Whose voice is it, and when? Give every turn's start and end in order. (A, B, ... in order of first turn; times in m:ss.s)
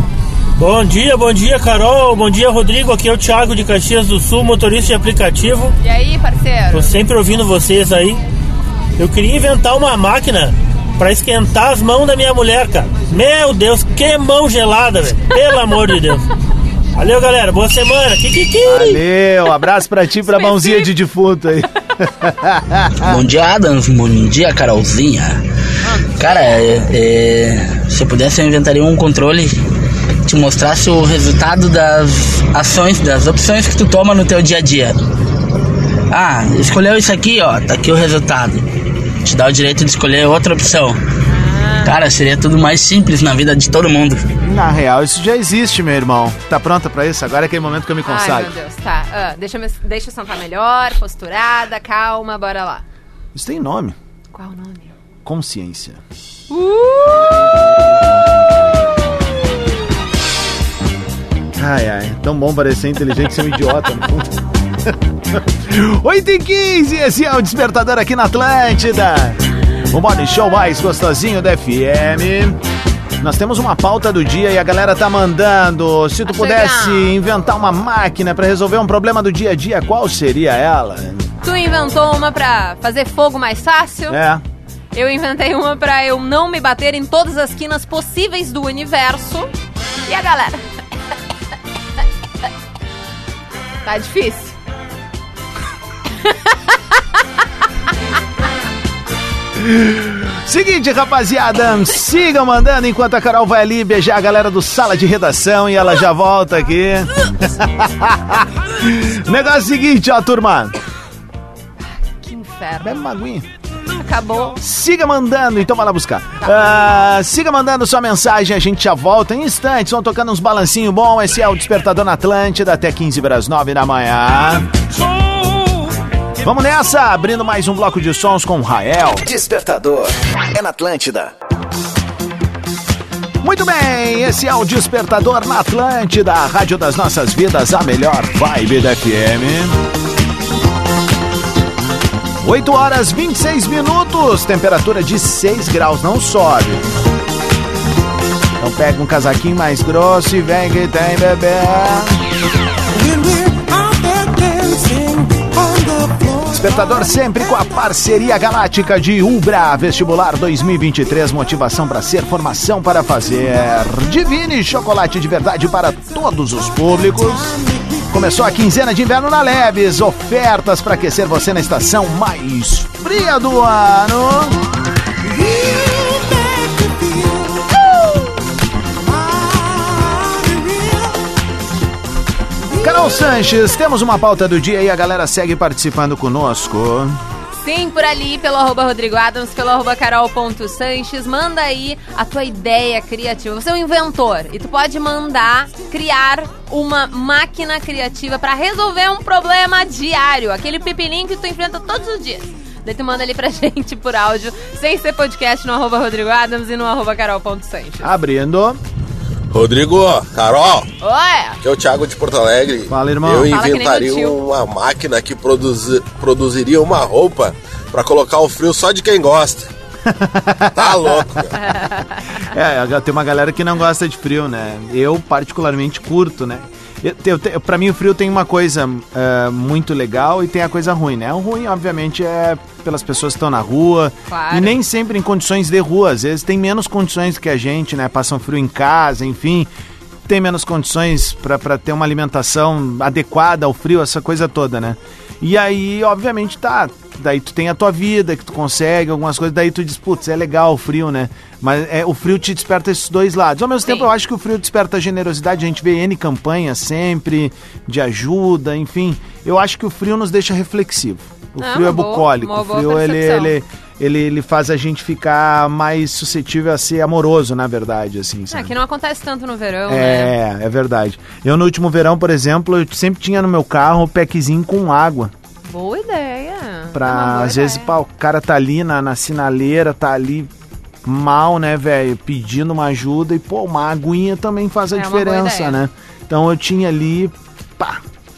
0:00.6-0:05.7 A
0:05.8-0:06.9 B
0:06.7-0:08.2 A
0:09.0-0:16.2 A
0:17.0-0:19.0 A
0:18.7-0:23.2 C
0:20.3-0:20.9 B
0:23.0-0:25.4 D
0:25.8-0:26.7 B
0:26.2-0:29.5 D
0:30.3-0:35.0 D
0:36.1-0:38.7 D
0:39.2-0:41.0 D
0:41.3-0:41.9 B
0:41.8-0:44.2 D
0:44.4-0:48.5 C
0:48.1-0:52.8 B
0:53.3-0:54.0 C
0:54.3-0:54.9 B
0:55.2-0:56.0 C
0:56.5-0:57.5 B
1:01.6-1:04.3 C
1:04.9-1:09.4 C
1:09.9-1:12.6 C
1:13.2-1:21.3 C
1:16.3-1:17.3 B
1:21.4-1:24.2 B
1:24.1-1:24.4 C
1:24.9-1:29.5 B
1:30.1-1:30.6 B
1:33.9-1:34.6 B
1:39.6-1:50.7 C
1:52.0-1:53.0 B
1:52.8-1:53.5 C
1:54.0-1:54.6 B
1:54.6-2:04.6 C
1:56.4-1:56.8 B
2:06.4-2:09.2 C
2:09.2-2:11.3 E
2:13.4-2:19.8 C
2:22.4-2:26.8 C
2:28.6-2:32.2 C
2:36.4-2:54.6 C
3:02.8-3:07.2 C
3:07.6-3:28.1 B
3:28.0-3:28.8 C
3:29.5-3:30.9 F
3:31.0-3:31.6 B
3:31.6-3:39.7 F
3:32.9-3:33.5 C
3:33.4-3:34.4 B
3:40.1-3:41.1 C
3:40.8-3:41.5 F
3:41.6-3:42.3 B
3:42.5-3:59.7 C
3:54.3-3:54.8 B
4:00.3-4:28.7 C
4:21.6-4:23.5 B
4:28.5-4:30.3 B
4:29.9-4:35.3 C
4:35.6-4:37.9 B
4:36.9-4:40.5 C
4:41.0-4:48.0 C
4:44.9-4:45.8 B